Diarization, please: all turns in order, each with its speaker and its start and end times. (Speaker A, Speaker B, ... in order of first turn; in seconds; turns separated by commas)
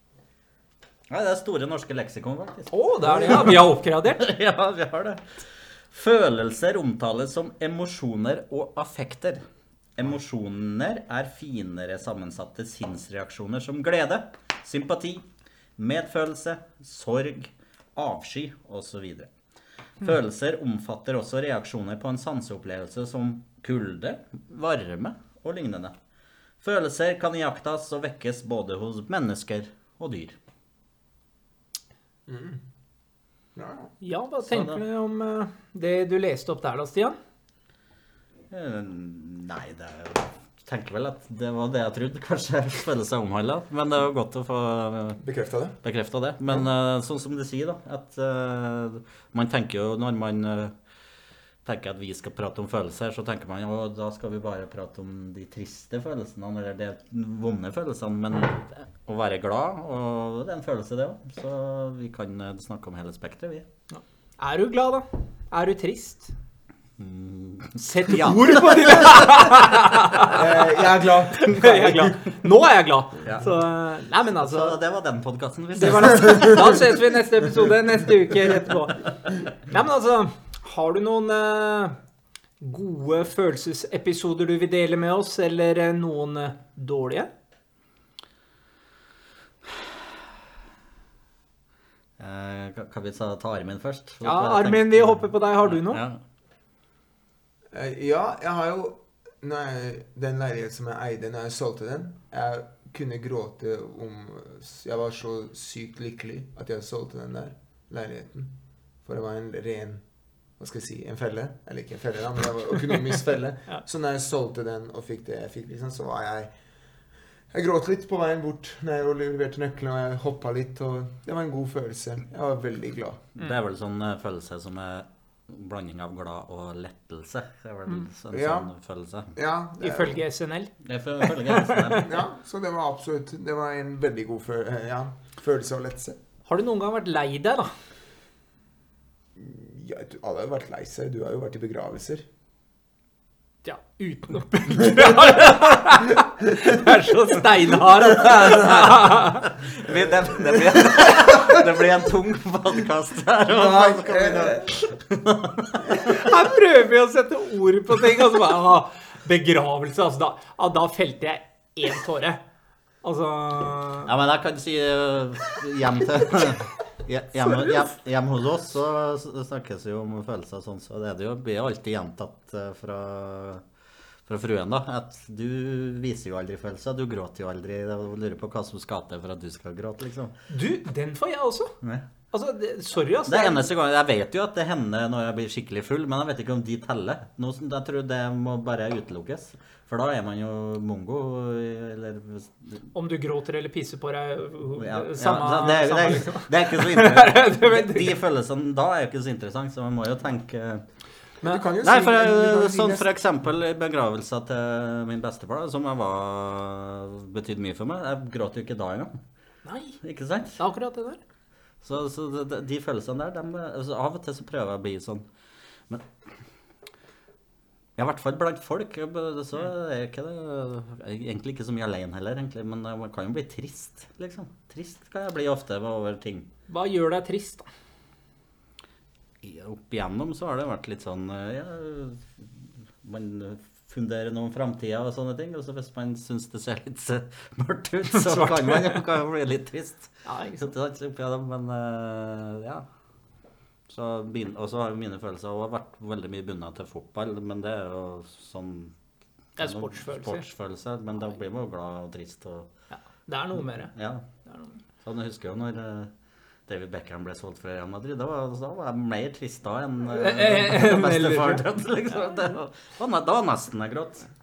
Speaker A: 1.1-3.7, Speaker B: 2.7-4.3, Speaker C: 3.1-3.5, Speaker A: 4.2-9.4, Speaker A: 9.9-15.2, Speaker A: 15.8-19.3, Speaker A: 20.0-25.9, Speaker A: 26.6-30.4, Speaker C: 32.3-32.6, Speaker C: 33.5-33.9, Speaker B: 34.0-37.2, Speaker A: 34.5-34.8, Speaker A: 38.5-45.2, Speaker C: 45.2-45.8, Speaker A: 45.8-50.8, Speaker A: 51.6-63.7, Speaker B: 63.9-66.3, Speaker A: 67.0-69.4, Speaker B: 67.8-70.5, Speaker C: 70.3-72.1, Speaker B: 71.3-74.8, Speaker A: 74.1-76.9, Speaker B: 75.8-82.0, Speaker C: 76.1-76.7, Speaker B: 82.6-87.3, Speaker A: 92.2-96.2, Speaker B: 94.2-96.0, Speaker C: 97.7-108.5, Speaker C: 109.0-110.0, Speaker C: 110.6-116.5, Speaker C: 117.5-123.2, Speaker A: 123.4-129.4, Speaker C: 128.3-128.7, Speaker C: 129.3-130.2, Speaker B: 129.8-132.1, Speaker A: 130.8-132.2, Speaker C: 132.0-136.2, Speaker B: 136.5-137.7, Speaker C: 139.4-142.3, Speaker B: 143.6-149.5, Speaker C: 148.4-148.9, Speaker A: 148.5-156.2, Speaker C: 149.9-151.7, Speaker C: 153.5-154.8, Speaker B: 155.9-162.4, Speaker B: 163.0-164.1, Speaker A: 164.1-173.6, Speaker A: 174.3-180.4, Speaker B: 180.5-181.8, Speaker A: 181.8-182.1, Speaker B: 182.3-183.7, Speaker A: 183.3-192.9, Speaker B: 192.9-198.2, Speaker A: 194.8-200.8, Speaker C: 201.4-203.1, Speaker A: 201.8-209.2, Speaker B: 209.7-210.0, Speaker A: 210.0-210.6, Speaker B: 210.6-211.2, Speaker A: 211.8-215.3, Speaker A: 218.0-226.5, Speaker B: 226.7-227.7, Speaker A: 229.4-242.9, Speaker B: 238.3-239.0, Speaker B: 240.2-240.7, Speaker A: 243.9-248.9, Speaker B: 249.6-250.4, Speaker A: 249.6-252.7, Speaker B: 252.9-253.9, Speaker A: 253.9-254.2, Speaker B: 254.4-254.8, Speaker A: 255.0-256.1, Speaker A: 256.7-264.3, Speaker B: 260.1-261.6